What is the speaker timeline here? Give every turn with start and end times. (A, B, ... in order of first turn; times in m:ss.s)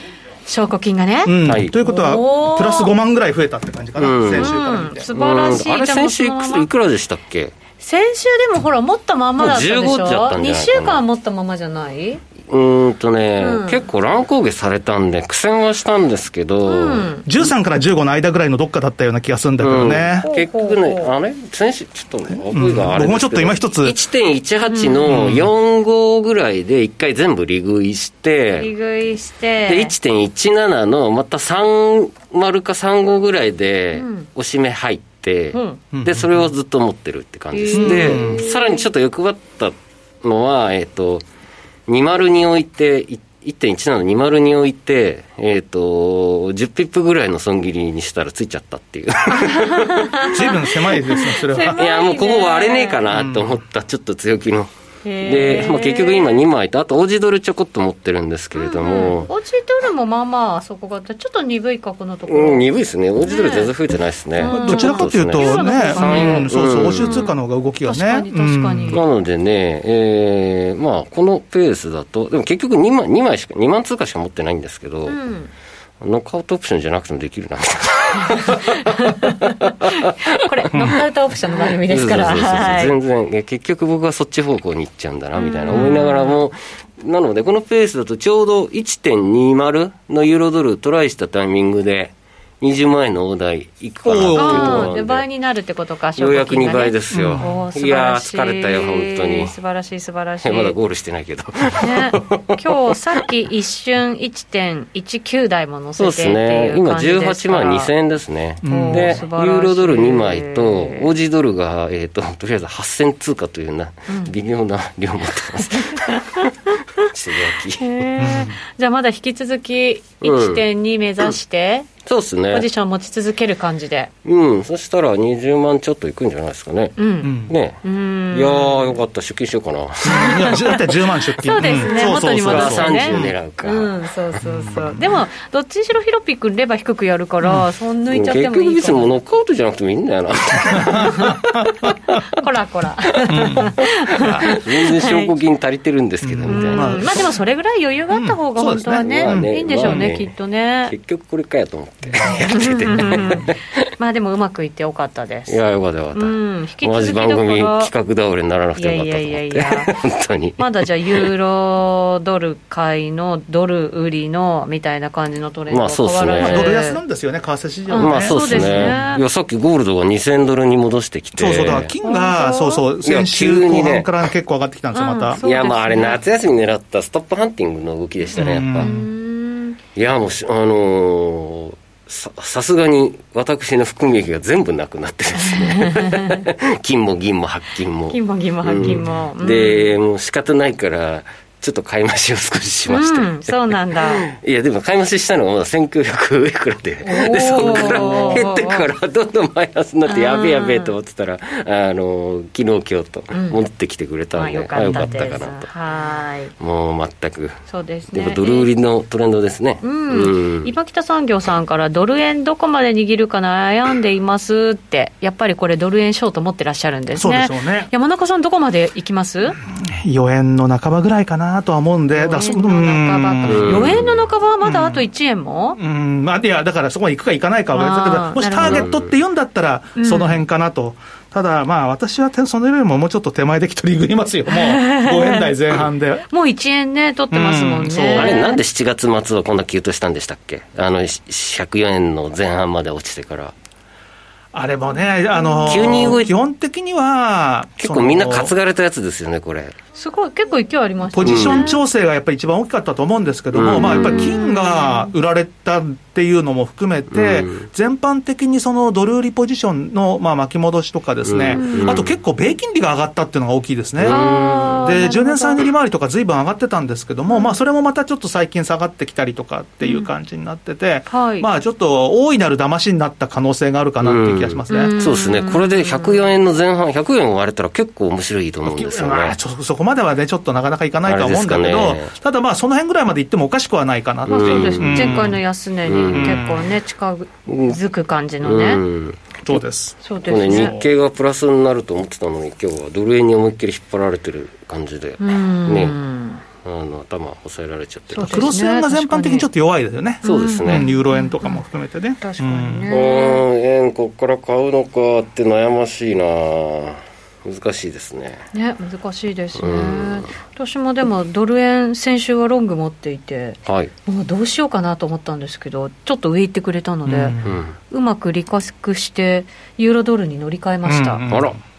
0:00.5-0:02.9 A
0:01.3-0:05.1 B
0:01.5-0:01.7 C
0:04.0-0:04.5 C
0:04.4-0:06.7 A
0:05.1-0:07.6 C
0:07.8-0:12.2 A
0:09.4-0:11.0 C
0:12.5-0:17.1 C
0:13.4-0:13.8 A
0:16.7-0:17.3 A
0:17.2-0:20.3 B
0:19.6-0:28.7 C
0:20.2-0:21.1 A
0:22.5-0:24.0 B
0:24.7-0:25.2 A
0:25.1-0:25.5 B
0:28.6-0:29.9 A
0:29.7-0:41.2 C
0:34.0-0:34.3 A
0:35.5-0:35.8 A
0:35.9-0:36.5 B
0:37.5-0:38.8 A
0:37.7-0:38.4 B
0:41.9-0:50.1 C
0:49.3-0:53.1 A
0:50.3-0:51.8 B
0:51.7-0:54.7 C
0:53.1-0:53.5 B
0:55.0-0:56.4 A
0:55.2-0:59.3 C
0:58.6-1:02.6 A
1:02.3-1:07.3 C
1:03.3-1:03.7 A
1:04.4-1:09.0 A
1:04.5-1:09.0 B
1:08.9-1:15.2 C
1:15.1-1:15.5 A
1:16.0-1:18.9 C
1:18.2-1:22.9 A
1:21.9-1:35.2 C
1:25.4-1:26.4 A
1:34.0-1:35.0 B
1:34.3-1:40.8 A
1:36.2-1:39.6 C
1:37.1-1:37.5 B
1:40.4-1:42.6 C
1:41.8-1:47.9 A
1:46.0-1:56.4 C
1:48.6-1:49.2 B
1:48.7-1:51.1 A
1:54.1-1:54.3 A
1:55.7-1:56.8 A
1:57.0-1:58.1 C
1:57.8-2:01.9 A
1:58.2-1:58.6 B
2:00.2-2:00.6 C
2:02.0-2:02.7 C
2:02.5-2:04.1 A
2:04.2-2:07.0 C
2:07.0-2:09.0 A
2:07.2-2:07.6 B
2:07.5-2:10.6 C
2:10.0-2:13.3 B
2:10.1-2:10.8 A
2:11.4-2:19.1 A
2:11.6-2:14.0 C
2:14.4-2:15.0 B
2:18.1-2:21.3 C
2:20.8-2:21.9 B
2:20.9-2:21.4 A
2:22.3-2:25.3 A
2:23.3-2:24.5 B
2:24.2-2:27.1 C
2:26.2-2:27.3 B
2:26.5-2:31.0 A
2:28.1-2:30.1 B
2:28.9-2:30.3 C
2:30.9-2:33.8 C
2:32.3-2:35.6 A
2:32.9-2:33.3 B
2:35.5-2:41.3 C
2:36.1-2:37.9 A
2:38.8-2:40.0 A
2:40.6-2:47.0 A
2:45.7-2:46.7 C
2:46.4-2:49.2 B
2:47.9-2:49.2 A
2:48.0-2:51.9 C
2:51.4-2:55.4 B
2:52.0-2:52.8 A
2:53.0-2:54.1 C
2:54.9-2:56.2 A
2:55.4-2:58.9 C
2:58.4-2:59.0 B
2:58.8-2:59.8 A
3:00.0-3:25.7 C
3:05.6-3:06.4 A
3:08.1-3:10.0 A
3:12.9-3:14.3 A
3:17.0-3:18.9 A
3:17.7-3:18.2 B
3:20.1-3:20.9 A
3:23.3-3:23.6 A
3:24.4-3:26.5 A
3:26.6-3:30.7 C
3:27.7-3:28.7 A
3:29.8-3:39.6 A
3:37.2-3:37.9 B
3:39.7-3:45.1 B
3:42.1-3:45.8 A
3:43.4-3:44.2 C
3:45.8-3:56.2 B
3:47.7-3:48.9 A
3:48.6-3:49.1 C
3:50.0-3:50.4 A
3:54.5-3:58.6 A
3:57.3-3:58.4 B
3:58.2-4:03.6 C
4:04.5-4:08.5 B
4:05.3-4:06.2 A
4:05.7-4:06.3 C
4:07.8-4:09.8 C
4:10.0-4:11.8 A
4:11.1-4:24.3 B
4:11.2-4:11.7 C
4:13.5-4:14.3 C
4:13.7-4:15.1 A
4:17.1-4:17.7 C
4:21.3-4:22.1 C
4:21.5-4:22.1 A
4:24.0-4:24.9 C
4:24.0-4:25.7 A
4:24.8-4:34.9 B
4:27.3-4:27.6 A
4:29.8-4:30.1 A
4:31.1-4:31.5 A
4:34.0-4:39.4 C
4:34.7-4:36.2 A
4:38.6-4:45.4 B
4:41.0-4:42.1 C
4:44.3-4:45.3 C
4:44.3-4:48.8 A
4:45.9-4:46.5 C
4:46.1-4:46.7 B
4:47.5-4:47.8 C
4:48.4-4:49.3 C
4:49.4-4:50.9 B
4:49.5-4:50.8 A
4:50.3-4:56.0 C
4:55.2-4:56.4 A
4:56.6-4:58.5 C
4:58.1-4:59.5 A
4:58.2-5:02.9 B
5:00.2-5:01.6 A
5:00.2-5:00.9 C
5:02.2-5:03.4 A
5:02.9-5:08.5 C
5:08.5-5:17.4 A
5:09.6-5:10.3 C
5:13.7-5:13.9 C
5:17.1-5:17.6 B
5:17.4-5:17.7 C
5:17.9-5:21.2 A
5:20.8-5:21.6 B
5:21.3-5:21.6 C